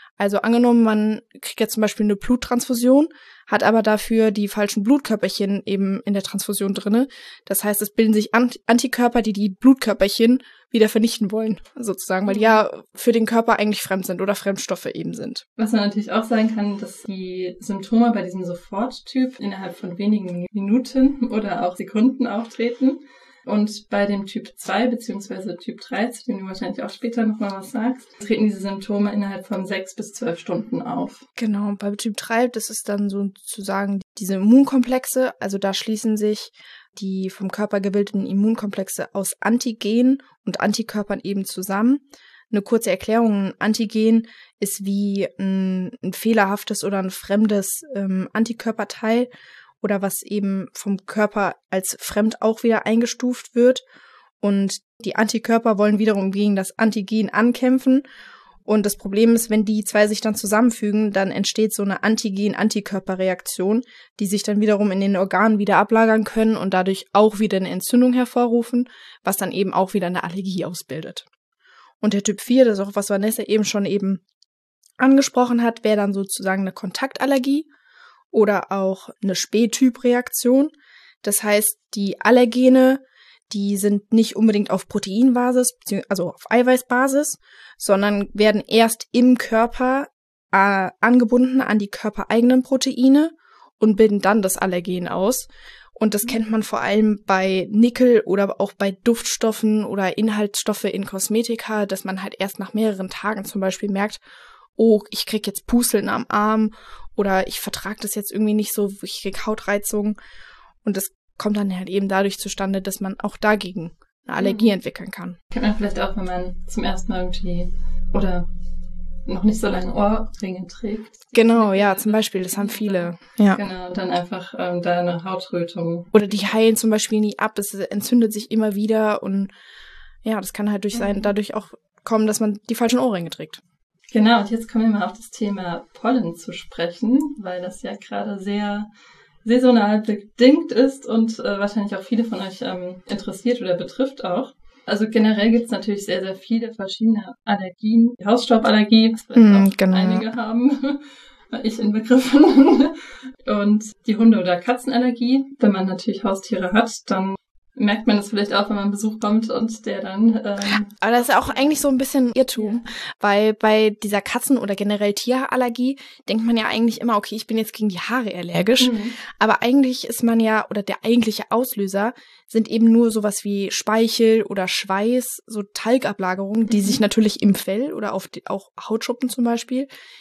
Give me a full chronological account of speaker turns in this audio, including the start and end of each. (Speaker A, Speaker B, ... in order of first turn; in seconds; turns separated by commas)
Speaker A: 0.2-15.4, Speaker B: 12.3-12.6, Speaker B: 15.6-31.2, Speaker A: 31.4-49.3, Speaker A: 49.8-53.8, Speaker A: 54.4-58.0, Speaker A: 58.6-71.2, Speaker A: 72.0-74.2, Speaker A: 75.0-77.7, Speaker A: 78.3-104.2, Speaker A: 104.8-110.2, Speaker A: 110.8-115.4, Speaker B: 114.4-114.7, Speaker B: 115.5-118.5, Speaker B: 119.3-126.1, Speaker A: 121.3-123.6, Speaker A: 126.1-129.5, Speaker A: 130.2-133.6, Speaker B: 130.9-131.3, Speaker B: 134.1-138.9, Speaker B: 139.4-161.7, Speaker A: 149.3-150.2, Speaker A: 160.9-179.9, Speaker B: 162.6-162.8, Speaker B: 168.8-169.2, Speaker B: 176.7-177.0